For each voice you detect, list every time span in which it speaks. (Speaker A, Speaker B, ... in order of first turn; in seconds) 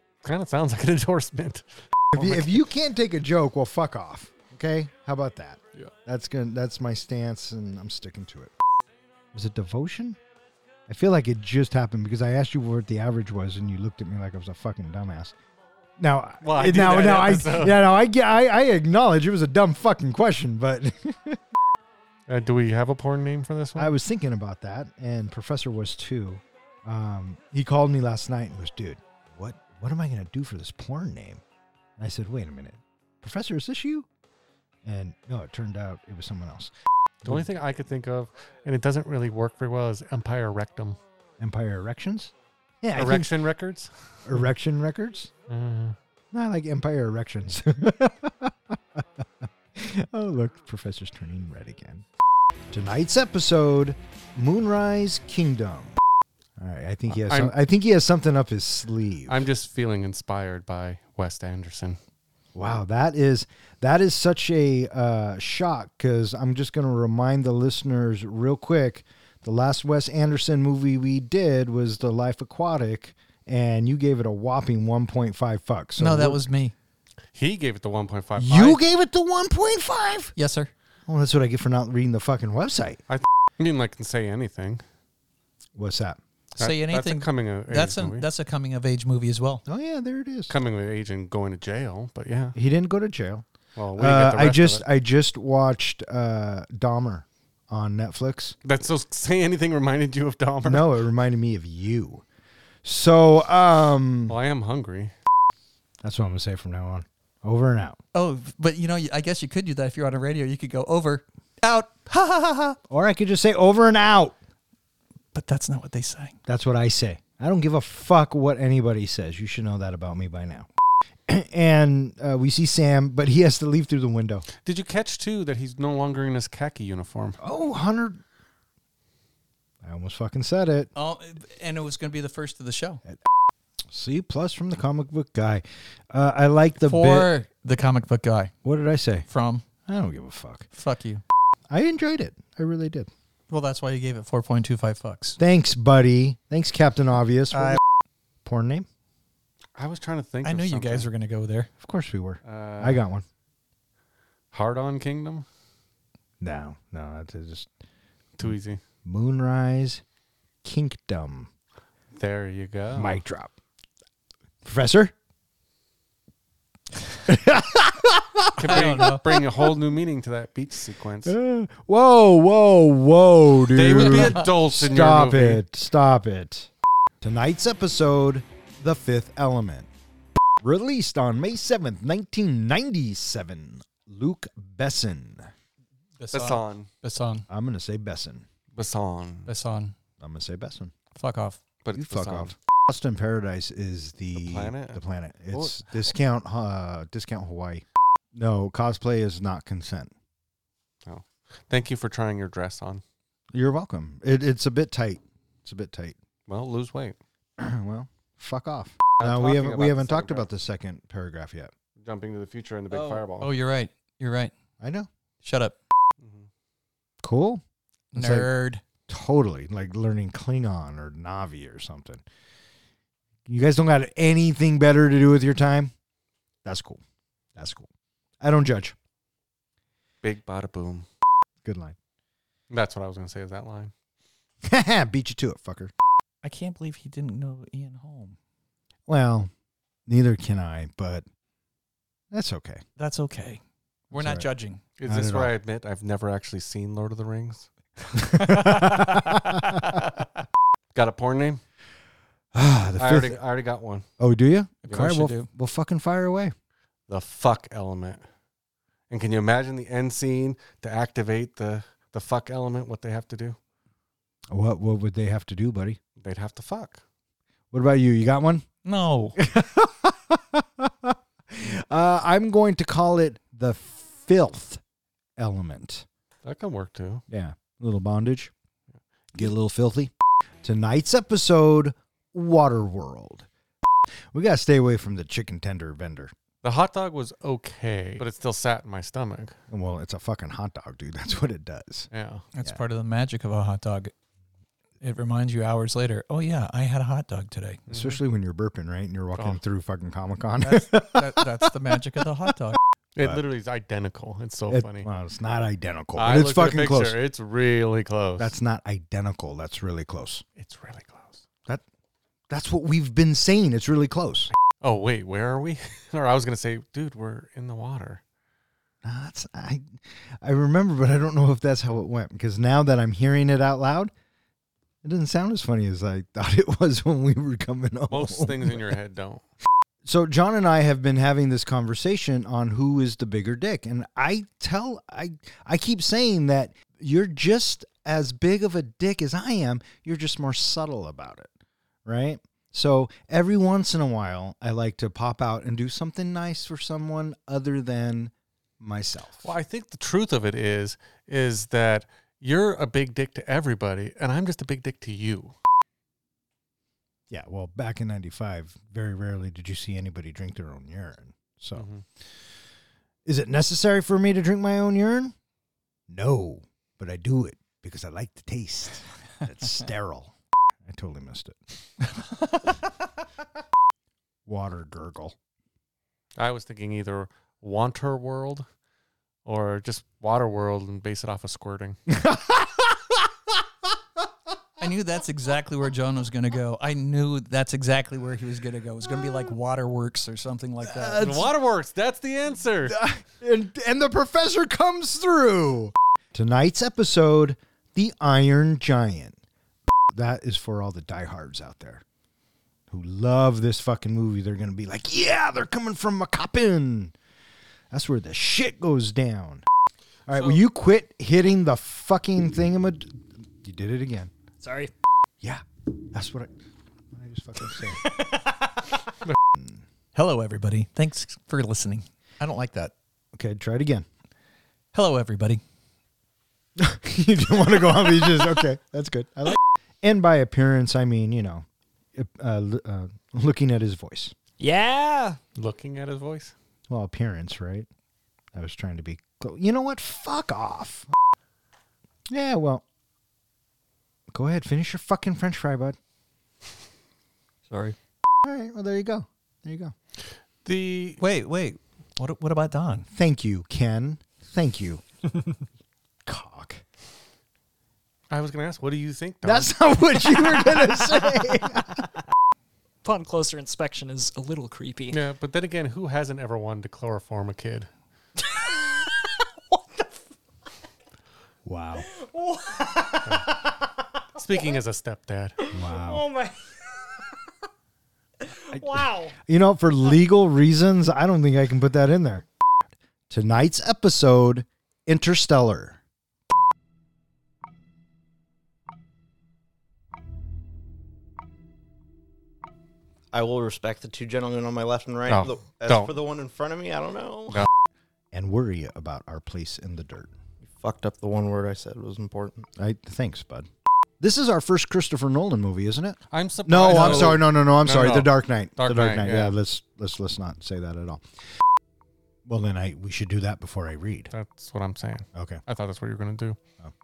Speaker A: 0.2-2.6, 16.4-17.9, 22.3-23.9, 37.2-41.0, 43.0-44.4, 45.5-46.0, 57.1-57.5, 59.3-62.0, 77.3-78.8, 83.1-84.8, 86.6-88.3, 90.5-92.6, 93.8-94.8, 98.7-100.9, 104.3-105.1, 124.6-127.4, 149.8-151.1, 152.4-153.0, 154.5-155.5, 158.4-158.8, 162.2-163.2, 168.6-171.4, 173.7-175.6, 186.3-186.9, 188.8-189.5, 191.8-192.5, 194.4-195.0, 195.5-195.9, 201.1-203.0, 206.5-207.2, 209.2-210.5, 212.0-213.5, 216.2-216.5, 230.2-231.1, 232.7-233.9, 245.0-247.7, 250.9-251.6, 253.0-254.1, 254.9-255.2, 257.1-258.2, 259.1-263.6, 266.2-267.0, 276.4-277.2, 286.6-289.6, 292.1-292.4, 297.9-298.2, 299.4-299.6, 303.2-305.1, 306.2-308.5, 310.6-311.4, 314.8-318.2, 328.1-329.4, 349.4-355.6, 361.8-362.0, 376.4-378.7, 379.5-382.0, 391.2-393.0, 435.6-436.5, 450.6-451.2, 458.3-459.9, 465.1-467.9, 474.4-475.6, 495.3-496.1, 506.3-509.6, 514.3-516.6
Speaker B: 2.1-8.5, 9.3-10.2, 10.9-15.3, 16.0-21.4, 23.8-31.4, 32.0-34.1, 34.9-36.7, 37.2-37.5, 41.4-43.4, 44.3-45.3, 46.3-52.0, 52.7-56.0, 56.6-59.4, 62.5-76.4, 78.4-80.3, 81.1-83.0, 85.8-86.2, 89.7-90.5, 92.5-93.5, 94.0-98.6, 100.6-102.2, 102.8-104.4, 106.0-108.0, 112.9-114.4, 116.5-120.7, 121.3-124.5, 127.4-128.2, 129.8-130.9, 133.9-137.3, 138.6-139.3, 139.9-140.7, 141.7-143.1, 145.4-147.8, 148.4-148.9, 151.8-153.2, 156.4-157.7, 159.1-160.0, 160.6-161.5, 162.9-163.5, 164.6-165.1, 167.3-169.7, 171.2-176.7, 177.2-179.9, 180.6-185.5, 187.5-188.5, 190.2-190.9, 191.9-200.1, 203.5-206.2, 207.6-211.7, 214.8-215.1, 217.2-217.6, 218.1-218.5, 219.1-222.2, 223.5-225.9, 226.7-227.0, 227.6-227.9, 228.4-229.0, 231.6-232.0, 234.6-235.9, 239.1-239.5, 240.1-241.2, 242.3-242.8, 244.1-244.5, 245.1-245.5, 248.3-249.8, 252.5-253.4, 254.2-256.5, 264.5-266.0, 267.7-268.7, 269.4-274.8, 275.4-276.1, 277.3-278.5, 279.3-280.1, 280.6-283.5, 284.3-286.3, 289.7-292.1, 297.9-301.9, 304.7-307.2, 308.4-310.4, 312.5-314.5, 319.0-324.1, 325.0-328.9, 330.1-341.5, 342.1-349.5, 357.3-361.9, 363.2-365.4, 366.1-370.3, 370.9-371.6, 374.5-375.4, 382.1-383.2, 390.9-391.5, 392.9-399.4, 400.1-402.0, 402.9-407.1, 407.9-409.6, 410.3-414.3, 415.4-416.5, 417.1-418.1, 423.3-424.1, 426.8-434.4, 436.9-437.9, 438.5-441.1, 442.3-442.8, 444.3-446.0, 448.4-449.9, 453.1-455.0, 456.3-456.8, 459.4-462.1, 471.6-472.1, 475.7-476.2, 478.8-482.5, 483.3-486.0, 498.3-500.3, 502.8-503.7, 504.2-511.2, 512.5-514.3, 515.4-515.6
Speaker C: 76.0-76.7, 80.4-80.7, 86.6-89.6, 108.1-112.8, 115.3-116.4, 130.9-133.0, 136.8-138.5, 139.3-139.7, 140.7-141.2, 143.5-145.4, 147.5-147.8, 150.4-151.7, 168.6-169.2, 186.2-187.5, 189.5-189.9, 191.2-191.6, 212.9-214.5, 215.4-215.8, 218.1-218.8, 236.4-238.4, 243.0-244.8, 248.3-249.3, 254.9-255.5, 268.9-269.4, 292.6-294.1, 295.0-297.8, 300.6-302.8, 384.8-391.4, 420.1-422.9, 424.9-425.6, 451.2-453.1
Speaker D: 414.6-414.9, 434.6-435.4, 463.0-465.2, 468.4-470.1, 472.0-473.6, 475.6-477.2, 478.4-479.3
Speaker E: 493.3-497.6, 500.6-502.7